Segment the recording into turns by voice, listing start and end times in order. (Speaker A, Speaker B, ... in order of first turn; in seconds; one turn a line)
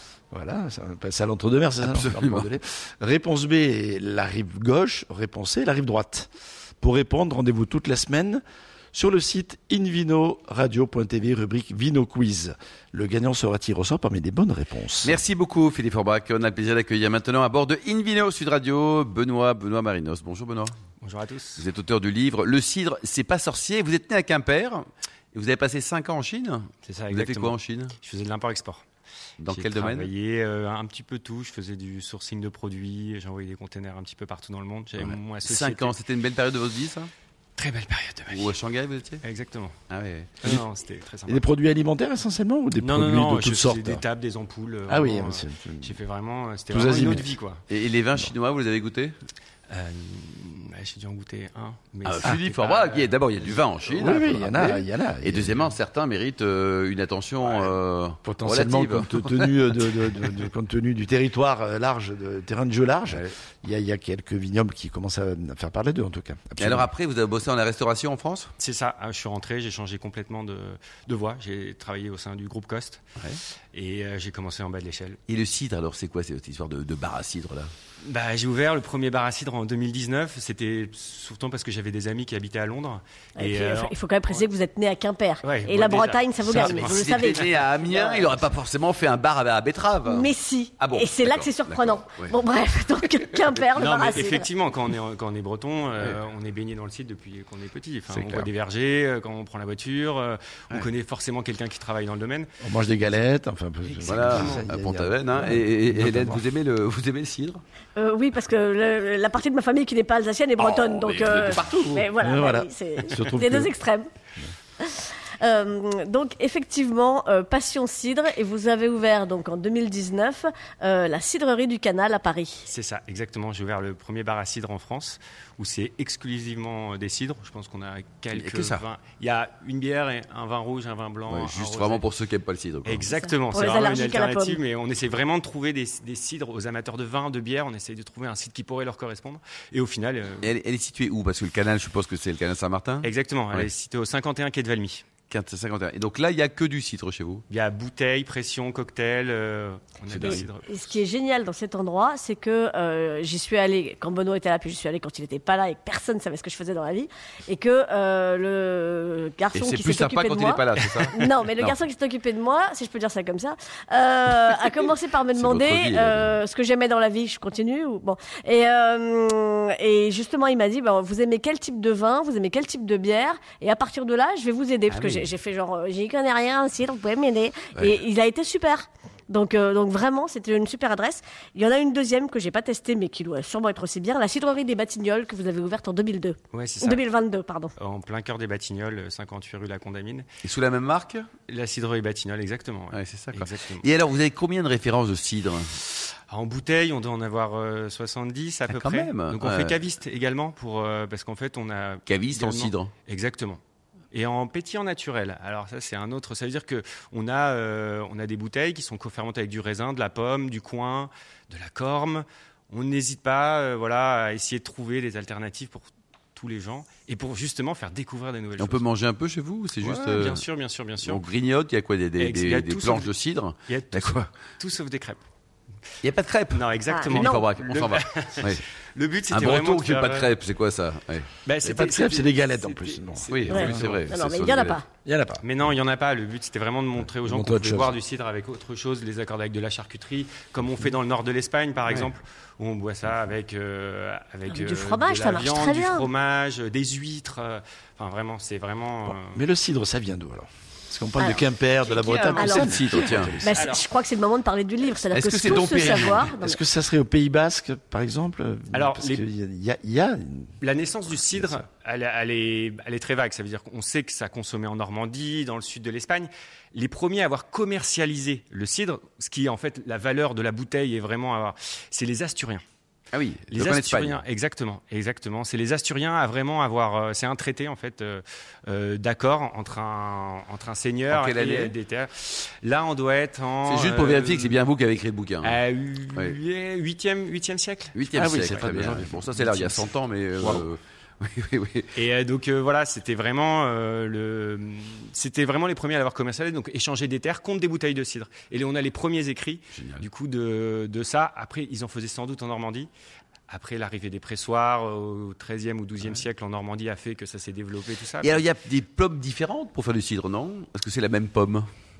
Speaker A: 0.3-6.3
Speaker B: 1.8-2.5
Speaker A: 6.8-8.4
Speaker A: 8.9-15.1
Speaker B: 15.0-20.8
Speaker C: 21.0-21.6
Speaker B: 21.6-28.0
Speaker C: 26.9-28.9
Speaker B: 29.4-30.1
Speaker C: 29.5-36.0
Speaker B: 35.0-37.1
Speaker C: 37.6-38.6
Speaker B: 38.3-39.2
Speaker C: 39.2-39.8
Speaker B: 39.9-40.4
Speaker C: 40.4-41.4
Speaker A: 41.3-44.0
Speaker C: 42.8-47.6
Speaker A: 44.9-46.0
Speaker A: 46.7-47.3
Speaker B: 47.7-49.1
Speaker C: 49.7-53.1
Speaker B: 52.0-60.3
Speaker A: 53.9-55.6
Speaker A: 58.2-66.9
Speaker B: 66.6-68.5
Speaker C: 68.6-73.0
Speaker C: 73.7-75.2
Speaker B: 75.3-77.7
Speaker C: 78.0-84.5
Speaker D: 83.4-88.2
Speaker C: 85.4-88.2
Speaker B: 86.5-92.3
Speaker D: 90.0-94.5
Speaker C: 93.7-102.5
Speaker B: 98.1-98.4
Speaker A: 102.6-106.4
Speaker C: 103.9-104.7
Speaker B: 104.0-107.6
Speaker D: 108.0-114.1
Speaker B: 110.7-112.1
Speaker A: 112.2-113.7
Speaker D: 114.8-122.7
Speaker C: 122.7-132.1
Speaker B: 128.3-128.8
Speaker B: 131.3-133.1
Speaker C: 132.8-140.5
Speaker D: 133.1-134.6
Speaker B: 140.4-143.7
Speaker C: 143.0-145.1
Speaker B: 145.3-147.4
Speaker C: 147.5-151.0
Speaker A: 150.2-150.4
Speaker D: 150.2-187.7
Speaker B: 159.5-161.8
Speaker B: 165.3-166.4
Speaker C: 174.9-175.2
Speaker C: 186.5-187.1
Speaker C: 187.8-190.3
Speaker B: 190.4-191.3
Speaker C: 191.5-193.9
Speaker B: 192.9-195.7
Speaker C: 196.3-203.6
Speaker B: 198.7-199.8
Speaker B: 202.1-202.9
Speaker C: 204.1-218.8
Speaker B: 218.6-220.4
Speaker C: 219.8-221.2
Speaker B: 221.0-224.3
Speaker C: 222.2-223.1
Speaker C: 223.7-225.2
Speaker B: 226.0-228.6
Speaker C: 226.5-230.3
Speaker D: 226.9-227.4
Speaker B: 229.3-231.3
Speaker C: 231.5-233.7
Speaker A: 231.6-234.1
Speaker B: 233.3-234.8
Speaker D: 233.5-234.8
Speaker A: 235.1-235.4
Speaker C: 235.4-249.4
Speaker A: 237.2-238.0
Speaker D: 244.5-246.1
Speaker A: 249.3-253.6
Speaker D: 251.2-251.5
Speaker C: 252.0-252.4
Speaker B: 252.1-253.4
Speaker D: 252.3-256.6
Speaker C: 253.5-253.8
Speaker B: 255.1-256.3
Speaker A: 256.3-260.5
Speaker C: 258.7-259.2
Speaker C: 260.6-272.6
Speaker A: 261.3-261.6
Speaker B: 273.1-274.2
Speaker C: 273.5-284.6
Speaker B: 281.1-281.7
Speaker B: 283.6-285.6
Speaker C: 285.4-288.6
Speaker B: 287.9-291.9
Speaker A: 288.1-289.9
Speaker A: 290.4-290.6
Speaker C: 291.9-302.9
Speaker B: 299.8-300.1
Speaker C: 303.5-308.4
Speaker B: 308.2-311.7